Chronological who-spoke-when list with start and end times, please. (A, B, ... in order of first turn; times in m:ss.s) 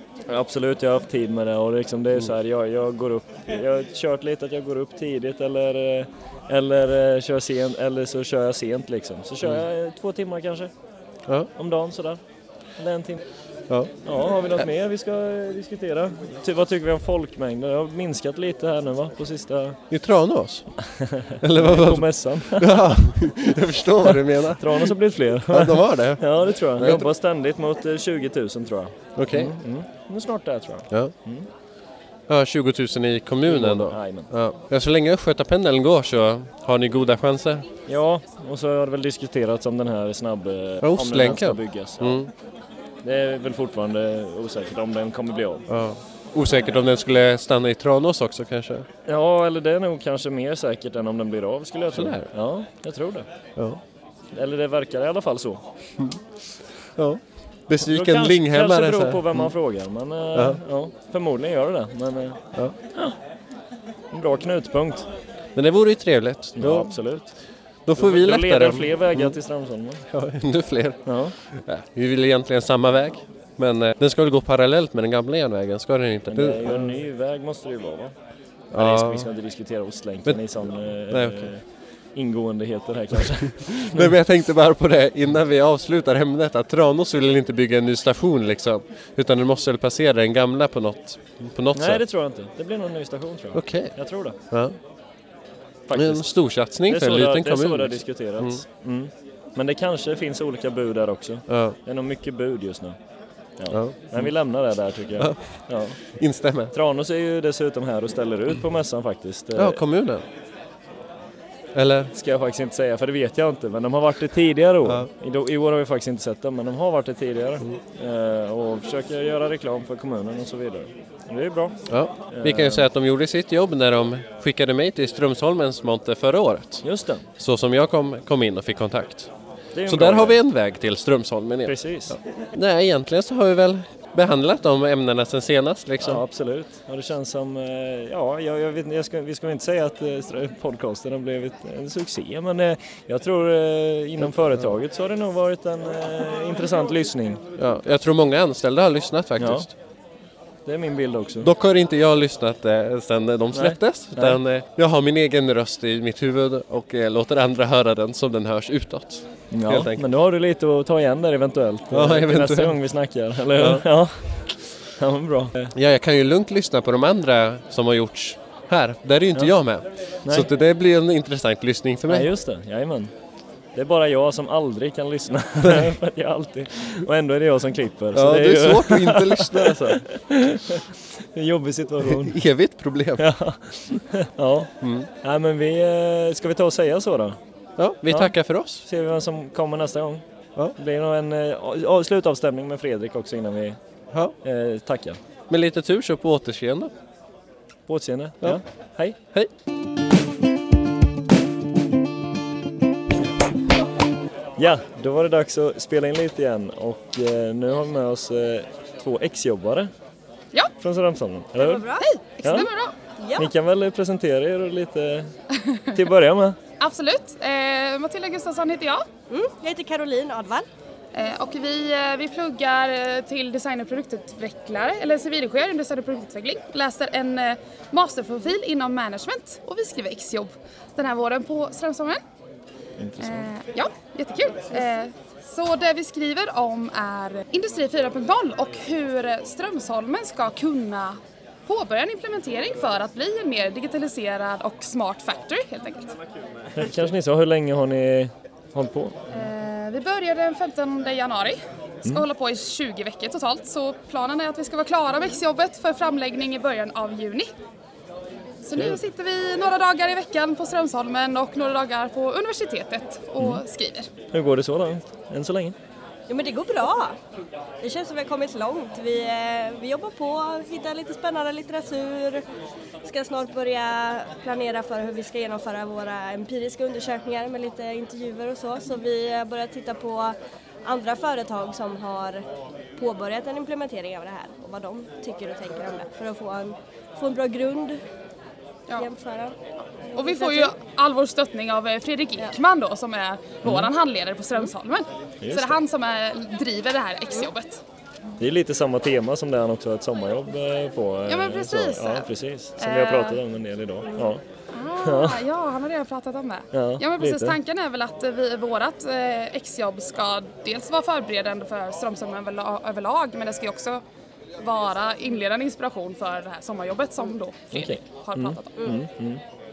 0:00.3-0:10.7 A
0:11.5-0:12.2 A
0:12.8-0:13.2 A
0:13.7-0:13.9 B
0:14.0-0:19.8 A
0:19.9-0:20.7 B
0:21.0-0:22.7 A
0:21.4-0:25.0 B
0:24.0-0:31.5 A
0:25.5-0:27.1 B
0:29.2-0:29.5 B
0:32.3-0:37.6 B
0:33.5-0:34.3 A
0:37.9-0:42.2 A
0:40.8-0:42.3 B
0:43.0-0:45.7 A
0:45.7-0:48.8 B
0:49.0-0:53.3 A
0:51.9-0:52.3 B
0:53.6-0:53.8 B
0:54.3-0:55.6 A
0:57.0-0:59.5 B
0:57.8-1:02.4 A
1:00.3-1:00.6 B
1:04.1-1:05.1 A
1:05.5-1:07.0 B
1:06.6-1:07.3 A
1:07.8-1:09.4 B
1:07.9-1:10.0 A
1:10.1-1:17.0 B
1:11.0-1:11.4 A
1:16.3-1:18.1 A
1:18.7-1:19.3 B
1:18.7-1:21.6 A
1:21.1-1:21.5 B
1:22.2-1:24.1 A
1:23.2-1:32.0 B
1:31.7-1:34.4 A
1:33.5-1:34.0 B
1:34.5-1:34.8 B
1:35.9-1:36.2 A
1:35.9-1:38.6 B
1:36.9-1:43.0 A
1:41.5-1:41.8 B
1:43.6-1:46.0 A
1:43.7-1:44.3 B
1:45.2-1:46.7 B
1:46.7-1:49.8 A
1:49.5-1:50.2 B
1:51.7-1:52.1 B
1:52.1-2:02.8 A
2:01.9-2:06.8 B
2:06.8-2:07.3 A
2:07.4-2:09.3 B
2:09.7-2:10.4 A
2:09.9-2:16.2 B
2:11.6-2:12.2 A
2:16.0-2:27.4 A
2:27.6-2:29.7 B
2:29.4-2:29.7 A
2:30.6-2:31.5 A
2:31.4-2:40.0 B
2:33.5-2:34.4 A
2:39.5-2:45.7 A
2:41.9-2:42.8 B
2:43.6-2:43.8 B
2:45.7-2:52.3 B
2:52.1-2:53.1 A
2:53.7-3:02.4 A
2:55.6-2:55.9 B
2:58.1-3:00.0 B
3:02.0-3:03.2 B
3:03.2-3:07.4 A
3:04.8-3:05.1 B
3:07.8-3:08.8 B
3:08.1-3:10.2 A
3:10.7-3:13.8 A
3:14.4-3:15.2 A
3:15.5-3:16.9 B
3:17.9-3:19.2 A
3:24.6-3:29.9 A
3:30.8-3:31.8 A
3:31.5-3:32.1 C
3:32.0-3:32.9 D
3:32.4-3:32.7 A
3:33.2-3:33.5 C
3:33.4-3:35.3 A
3:35.9-3:36.6 A
3:36.8-3:39.0 D
3:39.3-3:40.7 C
3:41.1-3:52.2 D
3:53.0-3:53.5 A
3:53.2-4:06.1 D
4:06.7-4:09.2 A
4:09.3-4:17.5 D
4:18.6-4:24.1 D
4:24.3-4:25.7 A
4:26.3-4:27.2 C
4:27.8-4:32.4 C
4:33.0-4:42.4 C
4:43.0-4:48.0 C
4:48.9-4:49.6 C
4:50.1-4:50.7 C
4:50.1-4:57.8 D
4:53.6-4:53.9 A
4:55.4-4:55.8 A
4:58.4-5:04.4 A
5:01.3-5:03.4 D
5:04.7-5:14.0 D
5:05.0-5:05.4 A
5:06.7-5:07.6 A
5:14.6-5:18.7 D
5:17.7-5:19.4 A
5:18.8-5:19.0 C